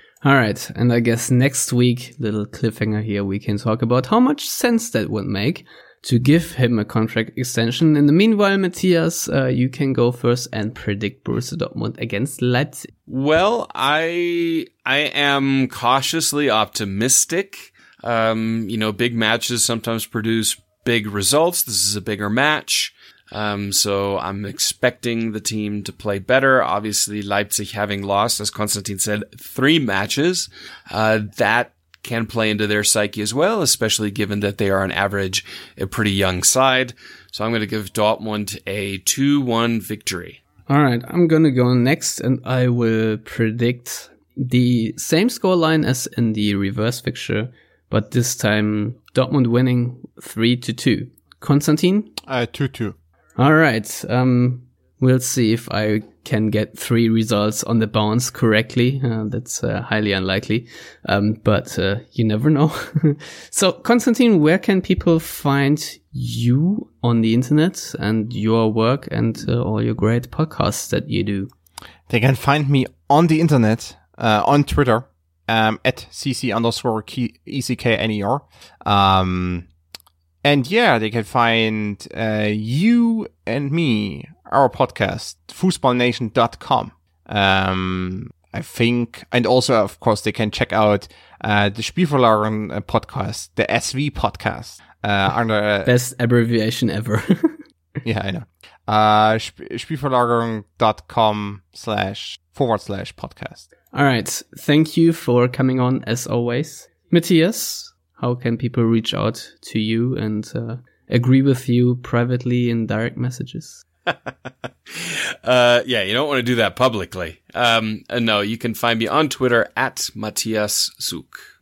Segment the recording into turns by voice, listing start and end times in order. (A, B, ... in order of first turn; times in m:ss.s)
0:00.2-0:12.9 A
0:13.1-0:40.4 B
0:40.7-0:52.2 A
0:52.2-0:53.0 C
0:53.4-1:11.5 A
1:12.1-1:19.7 C
1:20.4-1:35.9 C
1:35.8-1:37.6 A
1:38.0-1:43.6 C
1:43.9-1:53.8 A
1:54.9-2:01.4 B